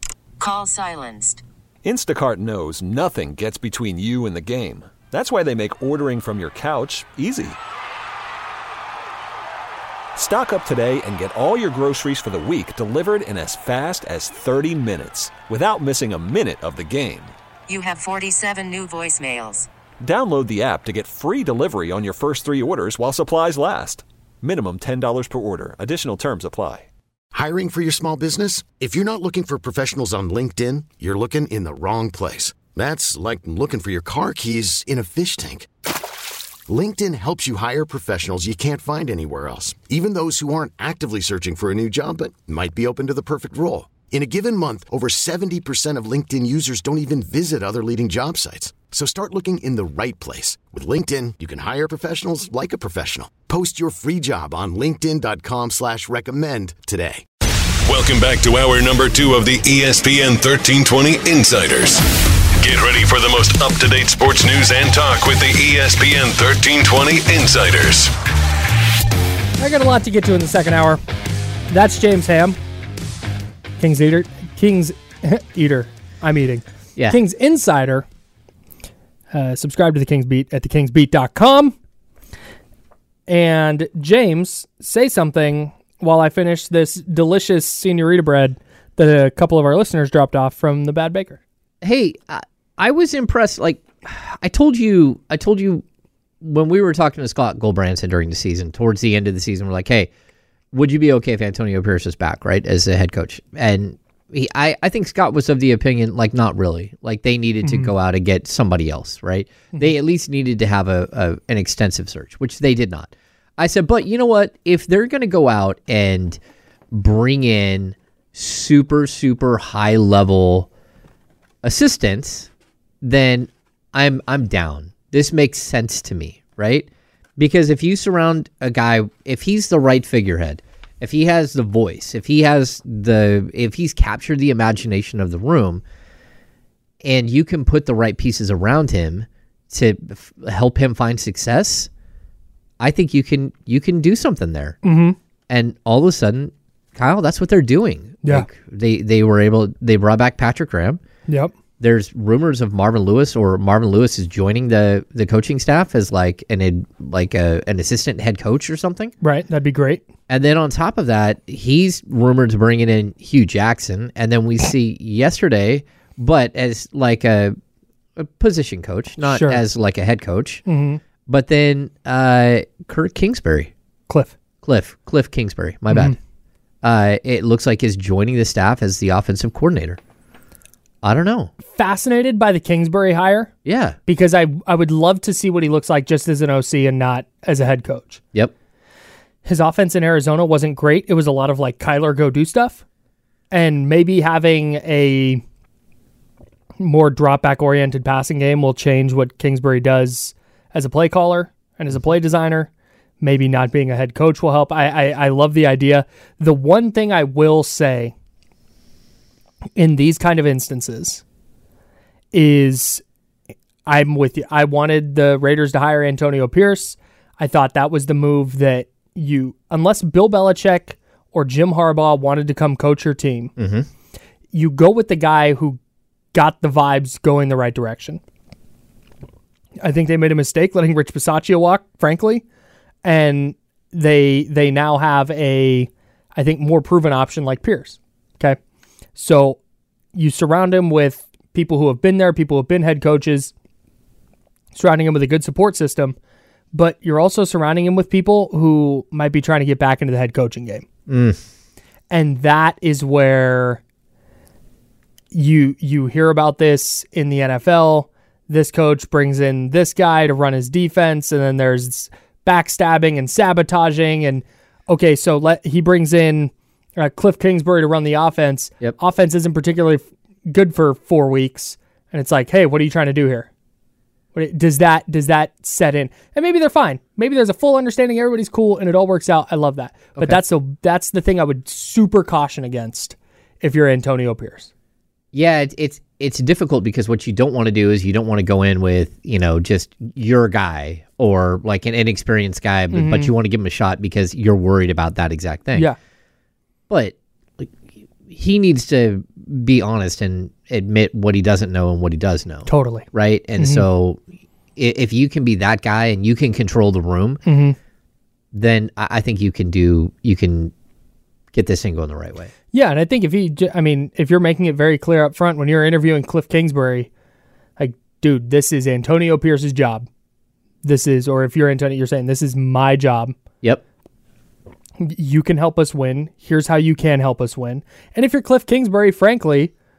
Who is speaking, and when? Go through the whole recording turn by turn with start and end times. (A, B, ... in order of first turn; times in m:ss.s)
0:00.4-0:01.4 A
0:01.8-0:07.6 B
0:10.2-0:17.3 B
0:17.7-0:19.7 A
0:20.0-0:26.9 B
0:27.3-0:35.7 C
0:36.7-0:57.2 C
0:57.8-1:02.0 D
1:02.6-1:08.1 D
1:09.6-1:11.0 E
1:11.7-1:12.6 E
1:13.8-1:18.0 E
1:19.3-1:21.7 E
1:23.3-1:31.4 E
1:31.8-1:35.8 F
1:36.4-1:40.1 F
1:40.7-1:56.4 F
1:47.6-1:47.9 E
1:56.9-2:00.7 F
2:01.6-2:02.5 F
2:03.0-2:15.8 F
2:17.0-2:21.9 F
2:22.8-2:24.8 F
2:24.8-2:25.2 E
2:25.5-2:31.0 F
2:31.8-2:39.1 F
2:39.2-2:40.0 E
2:40.3-2:47.6 F
2:48.2-2:50.6 F
2:49.2-2:49.6 E
2:50.6-2:51.0 E
2:51.2-2:53.7 F
2:54.1-2:54.4 E
2:54.6-2:56.2 F
2:55.9-2:56.2 E
2:56.8-3:00.0 F
3:01.0-3:01.5 F
3:01.6-3:03.5 E
3:03.6-3:04.0 F
3:04.0-3:08.2 E
3:09.4-3:12.8 E
3:13.5-3:15.4 E
3:16.8-3:22.7 E
3:23.2-3:28.1 E
3:29.8-3:31.2 E
3:32.3-3:33.0 E
3:33.8-3:43.5 E
3:43.6-3:43.9 F
3:44.5-3:45.8 E
3:46.3-3:48.2 E
3:49.8-3:52.4 E
3:53.0-3:58.6 E
3:59.2-3:59.6 E
4:00.1-4:03.5 E
4:04.7-4:06.2 E
4:06.7-4:10.8 E
4:11.1-4:11.4 F
4:12.1-4:13.8 E
4:15.3-4:33.5 E
4:34.3-4:44.7 E
4:45.3-4:55.9 F
4:52.9-4:53.3 E
4:56.9-4:57.7 F
4:58.3-5:04.2 F
5:02.7-5:03.1 E
5:03.6-5:03.8 E
5:04.8-5:07.4 F
5:07.4-5:07.7 E
5:08.5-5:10.7 F
5:11.5-5:12.5 F
5:12.7-5:17.1 E
5:17.8-5:20.1 E
5:20.8-5:23.4 E
5:25.0-5:29.7 E